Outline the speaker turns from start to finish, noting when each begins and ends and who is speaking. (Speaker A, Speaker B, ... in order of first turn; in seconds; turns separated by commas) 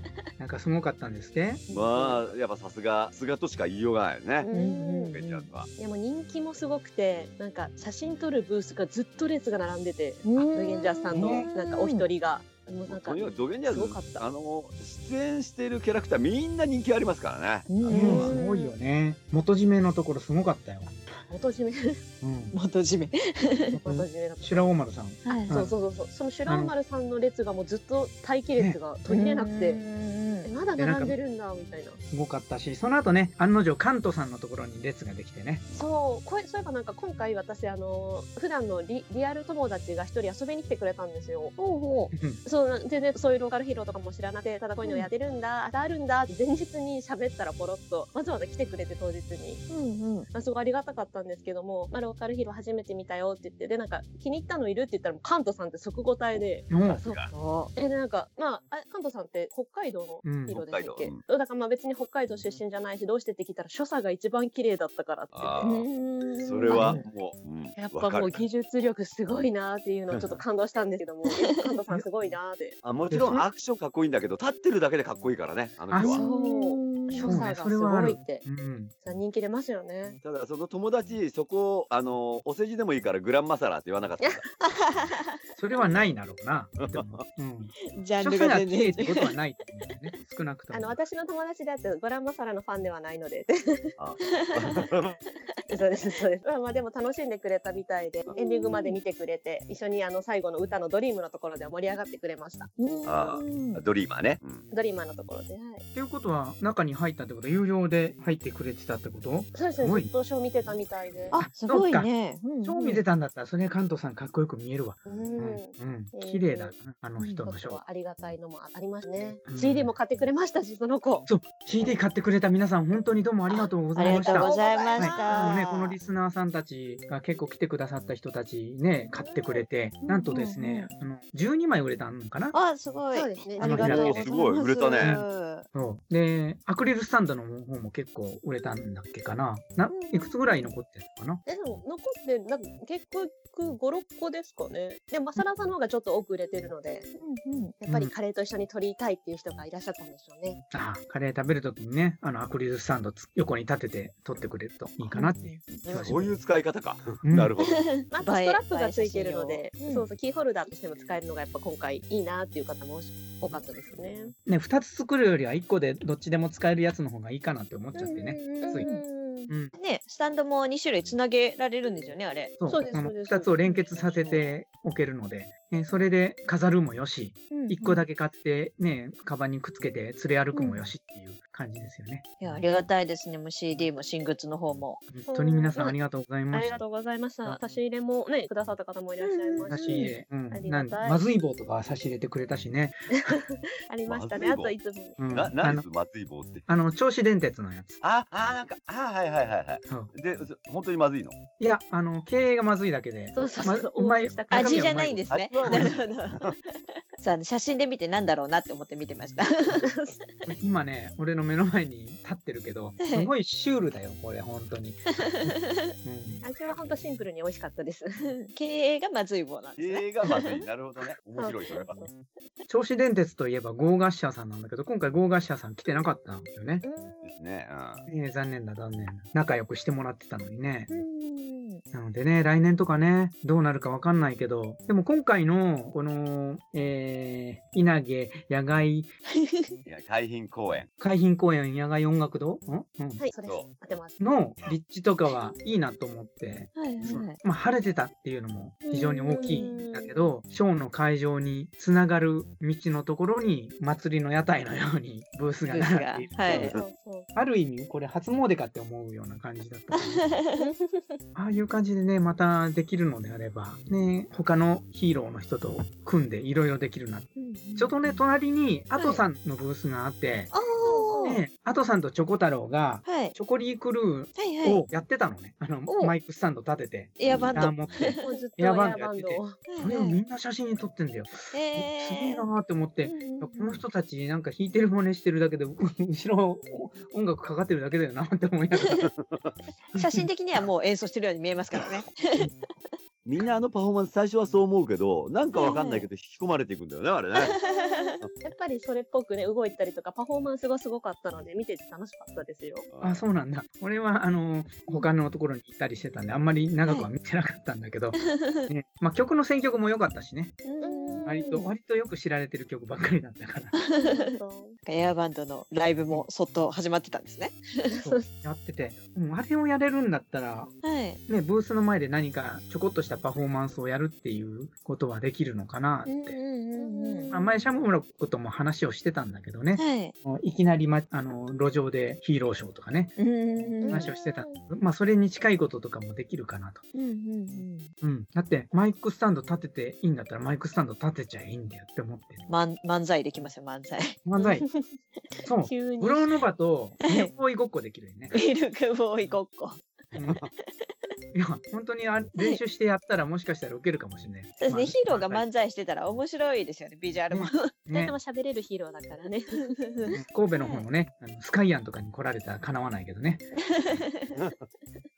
Speaker A: 0.4-1.6, Speaker B: 1.7-4.5, Speaker C: 1.7-2.1, Speaker D: 4.4-5.1, Speaker C: 4.5-5.5, Speaker B: 5.1-5.7, Speaker D: 5.8-14.3, Speaker C: 10.2-12.0, Speaker A: 11.1-11.5, Speaker B: 12.9-18.3, Speaker C: 17.7-18.3, Speaker D: 17.9-18.7, Speaker A: 17.9-21.0, Speaker D: 21.3-22.0, Speaker A: 22.2-22.5, Speaker C: 22.5-23.8, Speaker A: 23.7-25.8, Speaker D: 23.8-24.8, Speaker C: 25.2-25.6, Speaker D: 25.5-29.8, Speaker A: 26.5-26.7, Speaker C: 29.1-30.5, Speaker D: 30.4-32.0, Speaker A: 30.8-31.1, Speaker A: 32.1-35.6, Speaker D: 35.7-41.5, Speaker C: 41.6-42.1, Speaker A: 42.1-42.4, Speaker D: 42.4-49.6, Speaker C: 44.8-45.1, Speaker C: 49.7-50.3, Speaker D: 50.3-57.2, Speaker A: 56.7-57.0, Speaker B: 56.8-57.3, Speaker C: 57.3-57.7, Speaker D: 57.8-65.6, Speaker A: 60.2-60.6, Speaker B: 60.5-61.2, Speaker B: 65.3-65.9, Speaker C: 65.6-67.1, Speaker B: 66.4-68.4, Speaker D: 67.8-72.8, Speaker B: 70.1-70.4, Speaker B: 72.8-76.2, Speaker A: 73.1-73.5, Speaker A: 75.9-76.2, Speaker C: 76.0-77.4, Speaker D: 76.1-78.4, Speaker A: 77.2-78.9, Speaker D: 79.0-80.2, Speaker B: 80.2-84.4, Speaker C: 84.6-85.3, Speaker A: 85.6-91.0, Speaker B: 86.8-87.2, Speaker C: 88.0-89.3, Speaker D: 90.7-93.9, Speaker B: 94.0-95.2, Speaker C: 94.4-94.8, Speaker D: 95.7-102.7, Speaker C: 98.3-99.0, Speaker C: 102.8-103.8, Speaker B: 103.0-104.7, Speaker D: 104.7-105.8, Speaker A: 105.9-110.1, Speaker D: 109.5-111.4, Speaker A: 111.3-117.8, Speaker C: 111.3-113.0, Speaker D: 115.0-116.7, Speaker C: 117.2-117.4, Speaker D: 117.4-121.3, Speaker A: 119.5-119.9, Speaker A: 121.2-132.6, Speaker C: 123.9-126.0, Speaker D: 124.0-125.6, Speaker D: 129.1-129.7, Speaker C: 130.1-130.9, Speaker C: 132.5-135.7, Speaker D: 133.1-134.3, Speaker A: 133.6-134.2, Speaker B: 133.8-135.2, Speaker A: 135.0-141.4, Speaker C: 139.9-140.7, Speaker D: 141.4-147.1, Speaker C: 147.2-147.8, Speaker D: 147.8-150.6, Speaker A: 147.9-148.1, Speaker A: 150.7-156.4, Speaker C: 155.1-155.6, Speaker B: 155.8-157.8, Speaker A: 157.2-157.5, Speaker C: 157.6-160.1, Speaker D: 158.1-164.3, Speaker A: 164.4-168.9, Speaker C: 167.9-169.0, Speaker D: 168.6-169.5, Speaker C: 169.8-172.6, Speaker A: 172.6-182.6, Speaker D: 172.7-174.3, Speaker C: 177.5-178.0, Speaker C: 180.5-180.8, Speaker C: 182.4-185.0, Speaker A: 185.1-186.8, Speaker D: 185.3-185.9, Speaker D: 186.5-191.2, Speaker C: 189.2-190.1, Speaker A: 189.7-193.3, Speaker D: 193.2-195.2, Speaker B: 194.1-194.7, Speaker A: 195.2-195.8, Speaker B: 195.3-196.7, Speaker A: 196.7-198.0, Speaker B: 198.0-201.4, Speaker A: 201.6-205.9, Speaker D: 203.3-205.0, Speaker C: 204.5-209.9, Speaker B: 205.3-206.5, Speaker D: 209.8-210.2, Speaker A: 210.4-216.4, Speaker C: 213.0-213.3, Speaker C: 215.2-215.9, Speaker D: 216.4-218.1, Speaker C: 218.2-220.6, Speaker B: 219.8-222.1, Speaker D: 221.4-222.1, Speaker A: 222.7-226.8, Speaker D: 226.8-227.3, Speaker B: 227.2-228.1, Speaker A: 228.1-230.9, Speaker C: 230.9-231.8, Speaker A: 231.9-239.1, Speaker C: 239.3-239.7, Speaker B: 239.8-240.9, Speaker A: 241.0-243.2, Speaker D: 243.2-244.2, Speaker A: 244.2-256.7, Speaker C: 246.8-247.4, Speaker C: 248.9-249.8, Speaker D: 249.3-250.3, Speaker C: 255.7-256.8, Speaker D: 256.5-257.3, Speaker A: 257.3-260.3, Speaker C: 259.9-260.7, Speaker D: 260.6-261.2, Speaker A: 261.3-270.5, Speaker C: 267.4-268.2, Speaker C: 269.0-269.2, Speaker C: 270.5-271.4, Speaker D: 270.8-271.4, Speaker A: 271.2-289.1, Speaker C: 273.0-273.4, Speaker C: 274.4-274.8, Speaker C: 275.9-276.1, Speaker C: 277.2-278.4, Speaker D: 278.2-279.6, Speaker C: 279.7-280.2, Speaker C: 281.5-282.4, Speaker C: 283.0-283.8, Speaker C: 288.8-289.1, Speaker B: 289.2-289.5, Speaker A: 289.9-290.3, Speaker C: 289.9-292.9, Speaker B: 293.2-297.5, Speaker C: 295.6-296.1, Speaker C: 297.4-298.2, Speaker D: 297.6-302.9, Speaker B: 302.9-303.2, Speaker A: 303.0-310.6, Speaker C: 308.2-308.7, Speaker C: 310.6-311.6, Speaker D: 310.8-311.5, Speaker A: 311.2-313.7, Speaker C: 313.7-314.3, Speaker D: 314.0-314.8, Speaker C: 314.9-318.0, Speaker D: 317.9-318.2, Speaker A: 318.0-320.7, Speaker C: 320.8-321.2, Speaker A: 321.3-326.4, Speaker C: 326.1-327.3, Speaker D: 326.8-327.6, Speaker A: 327.3-333.1, Speaker C: 329.8-330.1, Speaker C: 333.2-334.1, Speaker D: 333.8-334.6, Speaker A: 333.9-336.8, Speaker C: 336.9-337.9, Speaker A: 338.0-342.4, Speaker C: 342.5-344.2, Speaker A: 344.2-344.6, Speaker A: 345.4-348.3, Speaker D: 345.6-346.3, Speaker C: 347.1-347.3, Speaker C: 348.3-349.8, Speaker A: 350.1-350.5, Speaker A: 351.3-355.4, Speaker C: 354.6-357.7, Speaker A: 357.3-358.1, Speaker D: 357.9-359.7, Speaker C: 359.8-360.8, Speaker A: 360.1-363.5, Speaker C: 363.7-364.4, Speaker B: 364.3-364.6